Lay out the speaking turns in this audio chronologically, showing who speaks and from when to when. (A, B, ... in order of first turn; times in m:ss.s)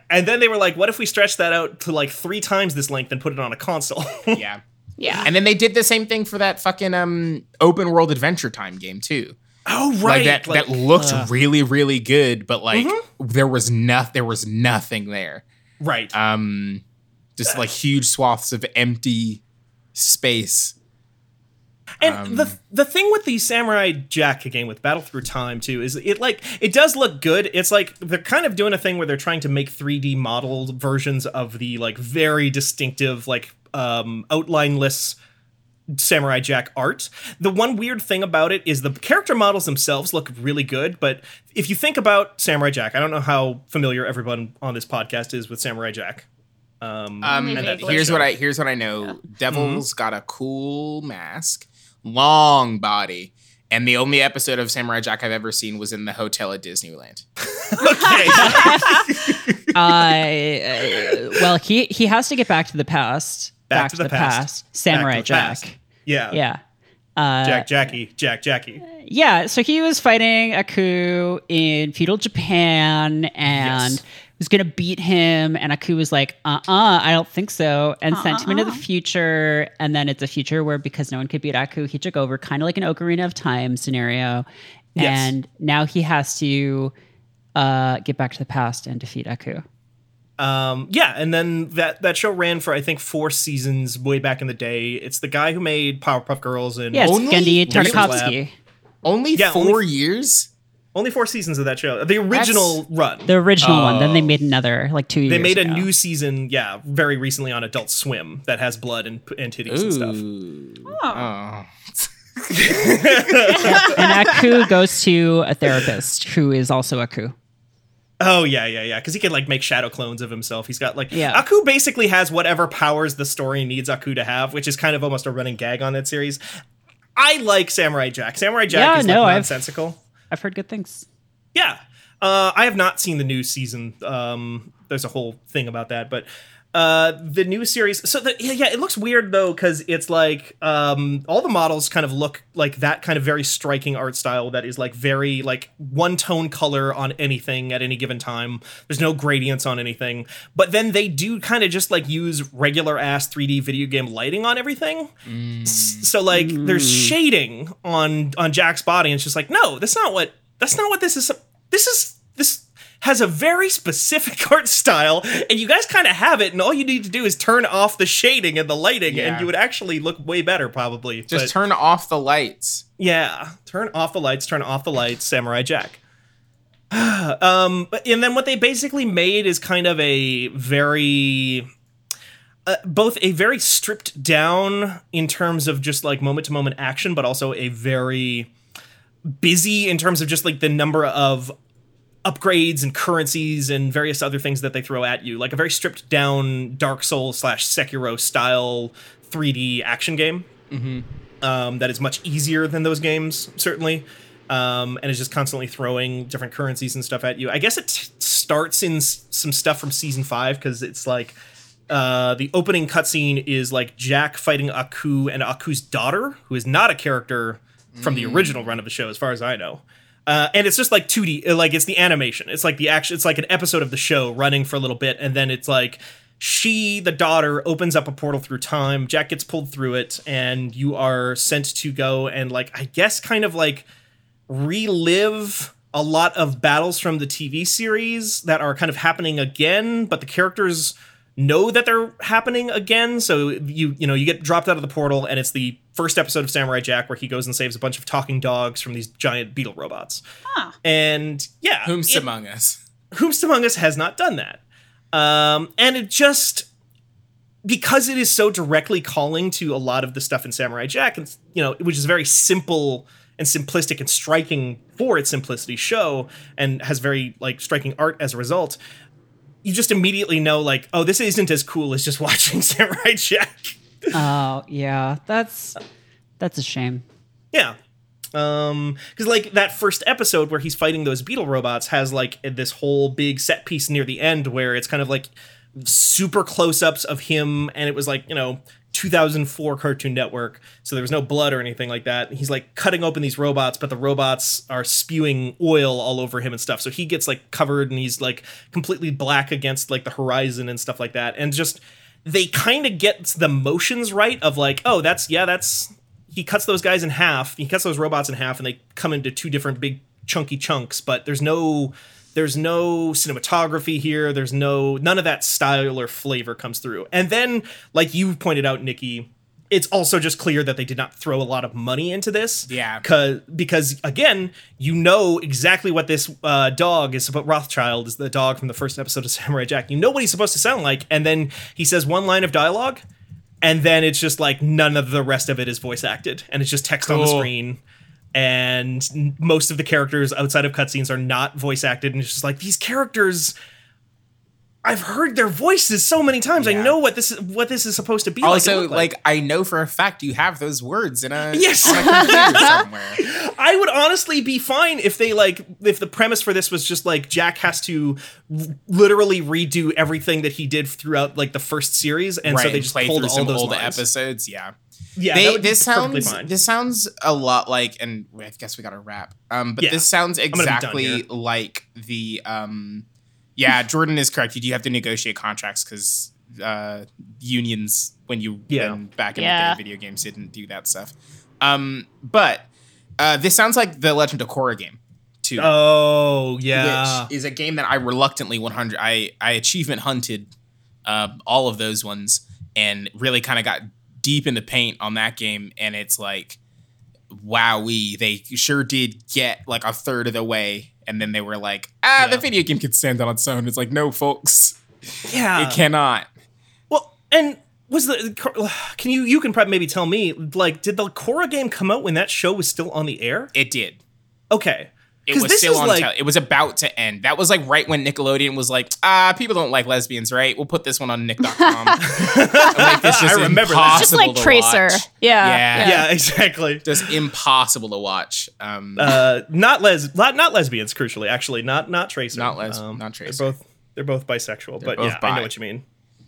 0:00.1-0:04.4 A
0:04.3-0:04.6 B
0:05.0-0:05.3 C
0:05.2-0:09.4 B
0:09.6-0:11.3 A
0:10.0-0:15.4 B
0:12.7-0:13.0 A
0:15.8-0:16.1 A
0:16.1-0:16.8 B
0:17.4-0:19.4 B
0:19.9-0:20.7 B
0:22.0-0:35.2 A
0:22.0-0:22.6 B
0:35.9-0:46.2 A
0:46.8-0:48.3 A
0:47.2-0:57.2 B
0:47.2-0:48.1 C
0:49.5-0:49.8 A
0:57.5-0:59.5 A
0:58.0-0:58.6 C
0:58.3-0:59.0 D
0:59.7-1:05.8 D
1:03.7-1:06.4 A
1:06.3-1:06.6 D
1:07.2-1:07.7 D
1:07.4-1:08.8 A
1:08.9-1:26.9 D
1:13.5-1:14.0 A
1:18.1-1:18.8 C
1:25.0-1:25.3 A
1:27.5-1:29.6 D
1:30.4-1:38.4 A
1:36.9-1:38.5 D
1:37.0-1:38.3 B
1:39.0-1:40.5 B
1:39.3-1:39.8 A
1:40.9-1:43.3 A
1:42.3-1:42.8 B
1:43.3-1:45.9 D
1:43.6-1:44.4 B
1:45.2-1:50.2 A
1:49.7-1:53.9 B
1:50.9-1:51.3 C
1:52.5-1:54.4 A
1:53.8-1:54.1 C
1:53.9-1:57.3 D
1:58.2-2:06.4 A
2:01.1-2:01.4 D
2:07.2-2:10.0 A
2:08.7-2:09.5 D
2:10.3-2:11.0 D
2:11.5-2:35.1 A
2:35.2-2:36.1 B
2:35.7-2:51.5 A
2:36.3-2:37.1 D
2:49.1-2:49.5 B
2:51.3-2:52.8 B
2:53.0-2:56.0 A
2:56.9-3:01.7 A
3:02.6-3:08.5 A
3:09.4-3:11.5 A
3:12.2-3:20.5 A
3:20.7-3:21.0 B
3:21.4-3:31.4 A
3:31.9-3:53.9 A
3:37.9-3:38.8 B
3:54.5-4:10.2 A
4:10.5-4:10.7 C
4:10.8-4:12.3 A
4:11.8-4:12.8 B
4:13.1-4:14.6 A
4:15.1-4:16.7 A
4:17.6-4:28.8 A
4:29.6-4:34.1 A
4:34.1-4:35.8 D
4:36.4-4:37.0 D
4:38.3-5:33.0 A
5:22.7-5:23.0 B
5:33.6-5:37.8 A
5:37.0-5:37.5 B
5:38.3-5:43.5 A
5:44.8-5:49.1 A
5:46.6-5:47.0 B
5:48.4-5:53.2 B
5:51.5-6:04.0 A
5:51.9-5:52.5 C
6:02.4-6:04.7 B
6:05.2-6:06.5 A
6:05.3-6:13.0 B
6:09.8-6:11.2 A
6:13.6-6:22.7 B
6:18.7-6:19.0 A
6:19.4-6:19.8 C
6:23.2-6:25.7 B
6:25.6-6:27.3 A
6:26.7-6:30.5 B
6:31.0-6:36.6 B
6:37.3-6:44.8 B
6:42.2-6:42.4 A
6:45.2-6:45.8 A
6:45.5-6:46.3 B
6:46.9-6:53.5 A
6:53.5-6:54.0 B
6:54.5-6:56.1 A
6:55.3-7:06.1 B
7:01.5-7:03.0 C
7:02.0-7:04.2 A
7:03.8-7:06.1 C
7:05.8-7:07.1 A
7:06.8-7:09.2 B
7:09.0-7:15.8 A
7:12.3-7:13.4 B
7:14.8-7:15.5 B